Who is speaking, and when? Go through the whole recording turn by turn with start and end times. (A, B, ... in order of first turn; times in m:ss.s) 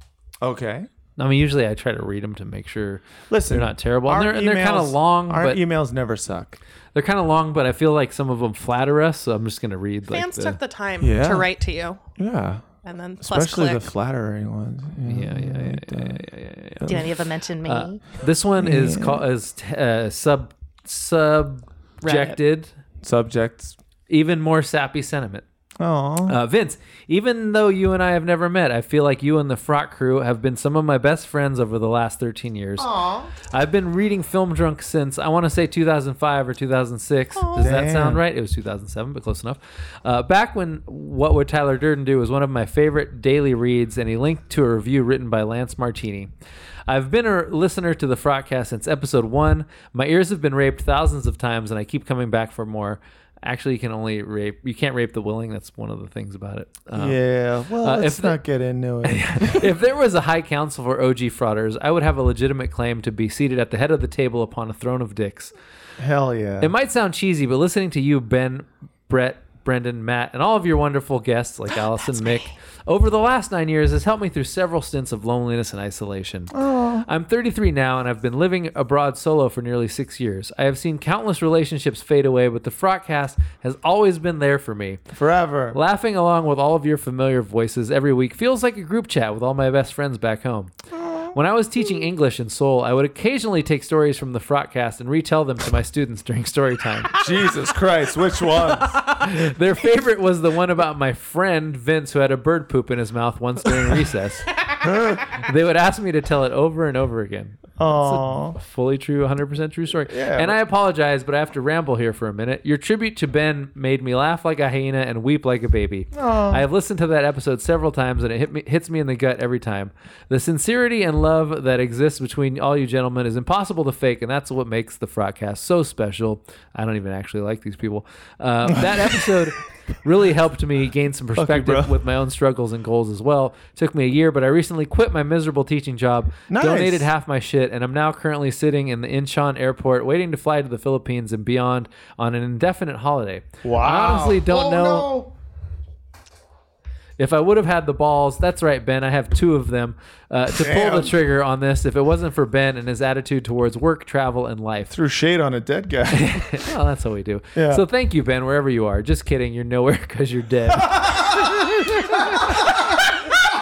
0:00.4-0:00.9 A
0:01.2-0:05.6 B
0:03.3-0:06.6 A
0:06.9-0:10.6 B
0:10.1-0:12.0 C
0:11.0-0:11.5 A
0:12.2-0:12.6 A
0:12.8-0:13.9 C
0:13.2-0:16.2 A
0:15.1-0:17.0 B
0:16.9-0:18.0 C
0:17.6-0:22.7 B
0:18.6-0:19.2 A
0:22.0-0:22.4 C
0:23.0-0:23.8 A
0:24.1-0:25.4 B
0:25.8-0:26.4 A
0:26.3-0:32.9 B
0:32.8-0:33.3 A
0:33.4-0:46.3 B
0:37.4-0:37.8 C
0:37.6-0:38.2 A
0:46.9-0:57.2 B
0:56.9-0:59.7 A
0:57.8-0:58.4 B
0:59.0-1:05.5 B
1:06.0-1:06.7 A
1:06.6-1:16.5 B
1:12.0-1:12.5 C
1:16.5-1:17.1 A
1:17.0-1:25.0 B
1:25.2-1:25.8 A
1:25.7-1:30.7 B
1:30.9-1:31.3 A
1:31.3-1:37.2 B
1:37.2-1:39.0 A
1:39.1-1:44.5 B
1:44.8-1:45.2 A
1:45.2-2:25.1 B
1:47.8-1:48.6 A
1:50.0-1:50.6 A
1:56.1-1:56.6 A
2:08.6-2:09.4 A
2:11.4-2:11.9 A
2:16.5-2:17.1 A
2:23.6-2:25.3 A
2:27.2-2:34.9 B
2:30.5-2:31.1 A
2:34.9-2:36.7 A
2:36.1-2:43.0 B
2:37.6-2:37.8 A